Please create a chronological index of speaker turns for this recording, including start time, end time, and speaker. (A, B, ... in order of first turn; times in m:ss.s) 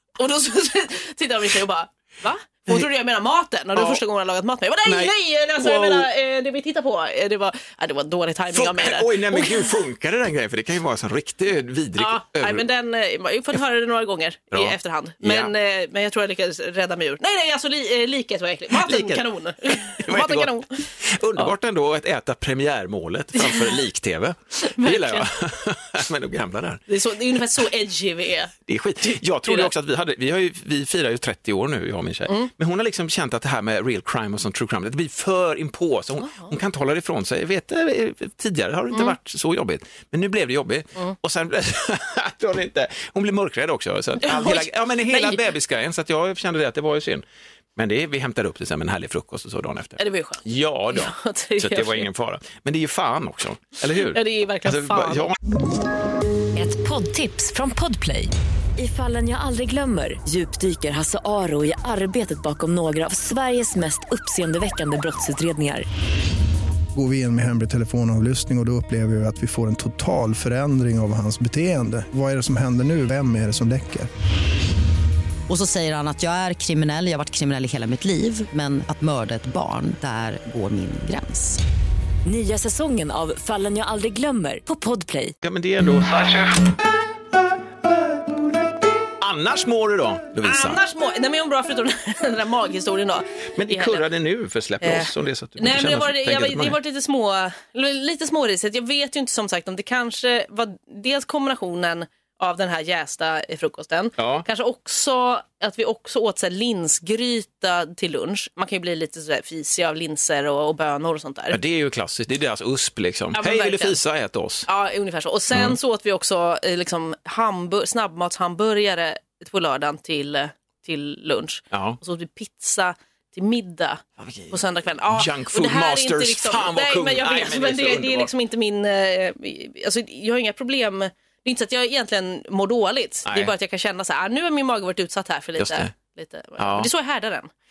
0:00.2-0:09.7 A
0:03.7-0:04.0 B
0:04.8-0:06.1 B
0:08.5-0:12.7 B
0:12.0-0:21.5 A
0:14.5-0:15.5 B
0:18.7-0:26.8 B
0:23.4-0:23.8 A
0:24.6-0:25.3 A
0:26.9-0:28.5 A
0:28.7-0:47.2 B
0:36.2-0:36.5 A
0:44.2-0:45.4 A
0:47.8-0:55.4 B
0:50.0-0:52.0 A
0:54.0-0:55.3 A
0:56.6-1:05.8 C
1:07.0-1:14.1 D
1:15.5-1:21.6 E
1:22.2-1:25.4 C
1:25.4-1:26.8 B
1:29.2-1:30.8 B
1:30.4-1:34.0 A
1:33.6-1:36.8 B
1:34.8-1:51.6 A
1:44.2-1:44.5 B
1:51.5-1:54.7 B
1:53.3-1:54.0 A
1:54.7-2:17.5 A
1:55.5-1:55.8 B
2:01.7-2:02.0 B
2:04.2-2:08.3 B
2:13.3-2:13.5 B
2:15.6-2:15.9 B
2:16.6-2:16.9 B